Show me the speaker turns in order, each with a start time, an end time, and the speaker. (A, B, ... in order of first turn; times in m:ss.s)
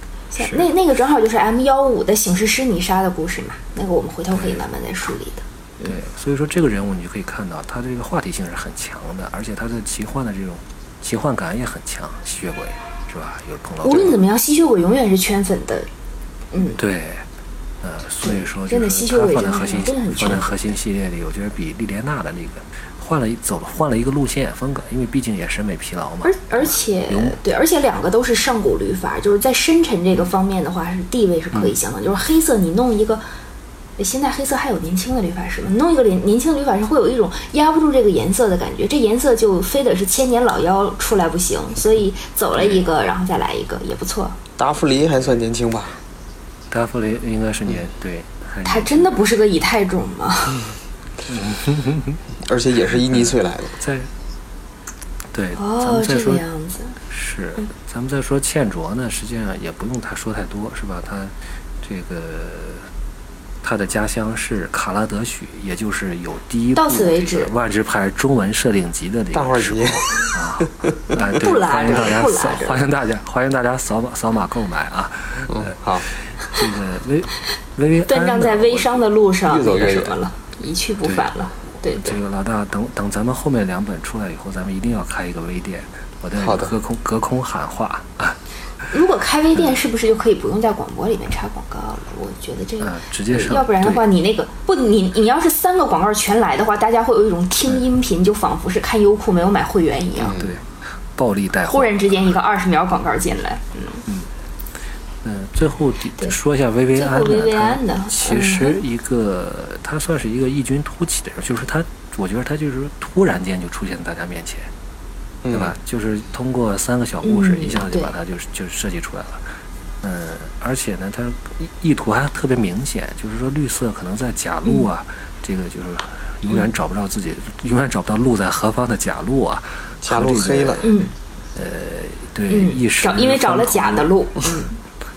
0:00.3-0:06.0 A
0:00.4-0:00.7 B
0:04.3-0:04.6 B
0:05.8-0:14.2 B
0:13.8-0:15.9 A
0:16.5-0:16.8 A
0:16.8-0:17.2 B
0:17.8-0:27.4 B
0:18.2-0:20.5 A
0:26.2-0:33.2 A
0:34.0-0:44.4 A
0:42.6-0:42.9 B
0:44.6-0:46.0 C
0:46.7-0:49.2 B
0:48.6-0:50.7 A
0:51.3-0:52.2 B
0:52.4-0:53.8 C
0:52.9-0:54.1 B
0:55.3-0:56.4 B
0:55.6-0:57.0 A
0:57.0-1:02.9 B
1:03.6-1:19.0 B
1:06.8-1:07.5 A
1:09.3-1:11.2 C
1:11.2-1:12.8 A
1:15.5-1:16.1 C
1:18.1-1:22.2 A
1:19.5-1:20.2 C
1:21.0-1:21.4 B
1:21.9-1:28.4 B
1:26.4-1:26.8 C
1:28.9-1:40.4 A
1:32.8-1:34.0 B
1:40.2-1:40.6 C
1:40.3-1:42.3 B
1:41.6-1:44.0 A
1:45.2-1:54.7 B
1:47.0-1:48.8 A
1:55.4-1:55.8 C
1:55.5-1:59.4 B
1:57.2-1:58.1 A
2:00.0-2:10.9 B
2:10.0-2:10.9 C
2:10.8-2:11.1 A
2:11.6-2:14.1 B
2:12.5-2:14.8 A